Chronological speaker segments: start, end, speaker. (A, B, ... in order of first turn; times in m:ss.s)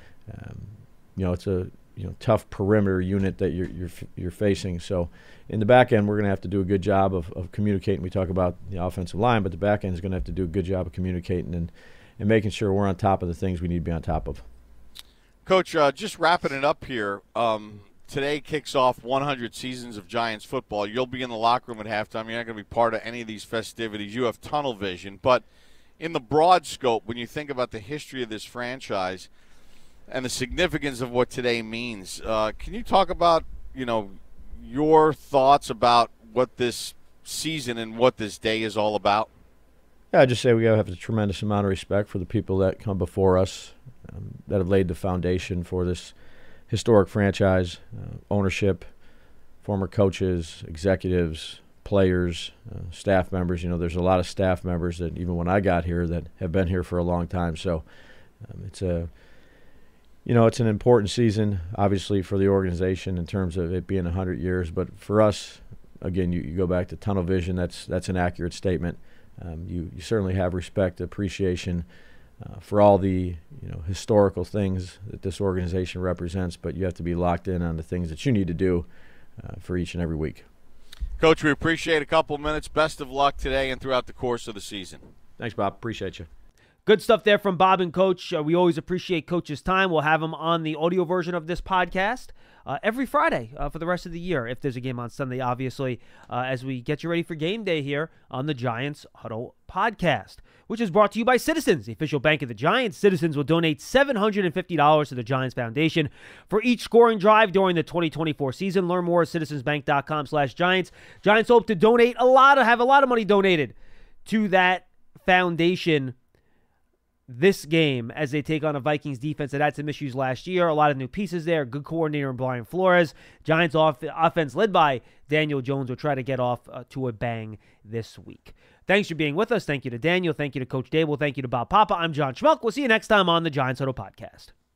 0:00.3-0:14.4 A
0:15.4-0:25.4 B
0:26.0-0:29.3 B
0:30.1-0:39.3 B
0:40.1-0:46.1 A
0:46.7-0:48.8 A
0:49.6-0:57.8 A
0:58.4-0:59.1 A
1:00.2-1:11.8 A
1:12.4-1:18.9 A
1:19.4-1:20.4 A
1:21.2-1:25.0 B
1:25.4-1:26.3 A
1:26.8-1:56.1 C
1:57.3-2:14.5 C